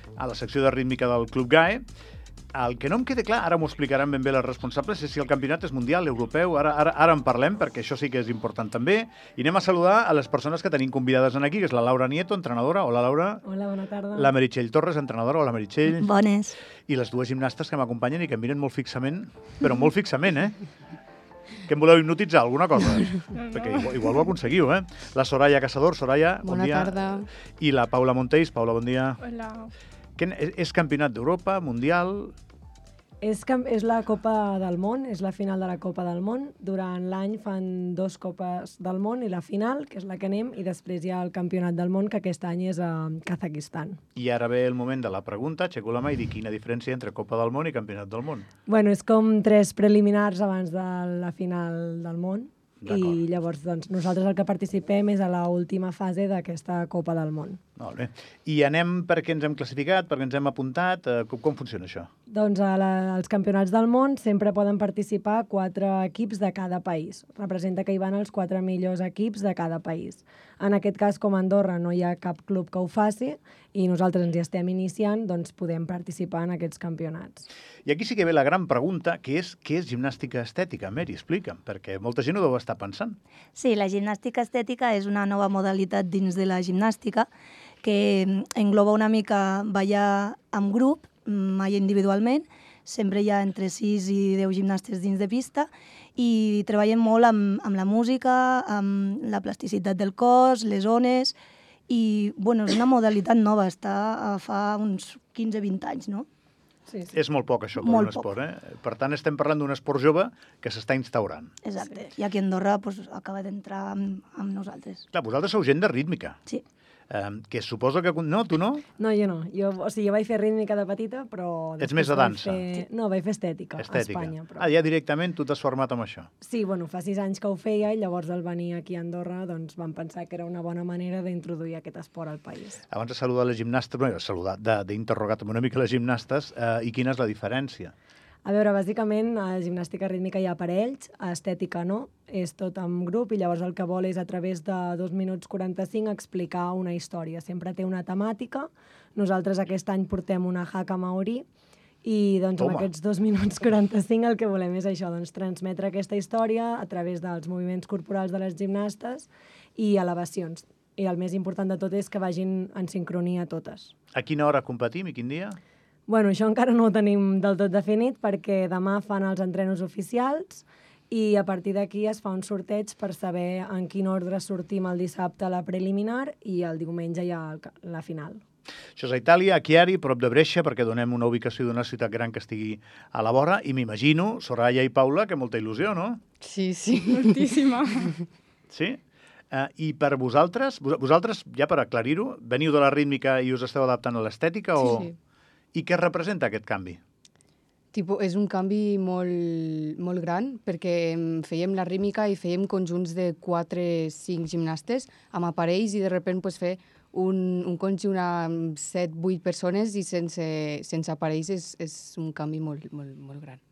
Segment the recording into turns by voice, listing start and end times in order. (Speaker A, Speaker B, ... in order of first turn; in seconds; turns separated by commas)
Speaker A: 0.2-1.9, Speaker A: 2.5-13.4, Speaker B: 13.4-14.3, Speaker A: 14.1-16.1, Speaker C: 16.0-16.6, Speaker A: 16.8-20.6, Speaker A: 21.7-29.2, Speaker D: 23.4-24.1, Speaker E: 26.4-27.3, Speaker D: 29.2-29.7, Speaker A: 30.2-32.4, Speaker B: 33.2-44.0, Speaker A: 44.2-48.5, Speaker B: 48.7-57.6, Speaker A: 52.8-53.2, Speaker A: 57.8-62.1, Speaker B: 62.3-77.5, Speaker A: 77.9-83.2, Speaker C: 83.6-87.3, Speaker C: 87.8-101.4, Speaker C: 101.9-106.3, Speaker A: 107.1-111.5, Speaker C: 107.8-108.3, Speaker C: 111.6-115.0, Speaker A: 115.1-116.4, Speaker A: 117.1-118.8, Speaker B: 119.0-124.7, Speaker A: 121.8-122.8, Speaker A: 123.8-126.3, Speaker B: 126.4-132.8, Speaker A: 132.9-137.9, Speaker B: 138.4-151.5, Speaker B: 152.0-163.9, Speaker A: 152.6-152.9, Speaker A: 164.1-165.6, Speaker B: 166.1-178.4, Speaker A: 179.0-186.2, Speaker E: 186.4-187.5, Speaker D: 187.1-188.2, Speaker A: 188.7-189.0, Speaker A: 189.5-195.1, Speaker E: 194.8-195.1, Speaker A: 195.7-197.0, Speaker E: 197.9-213.6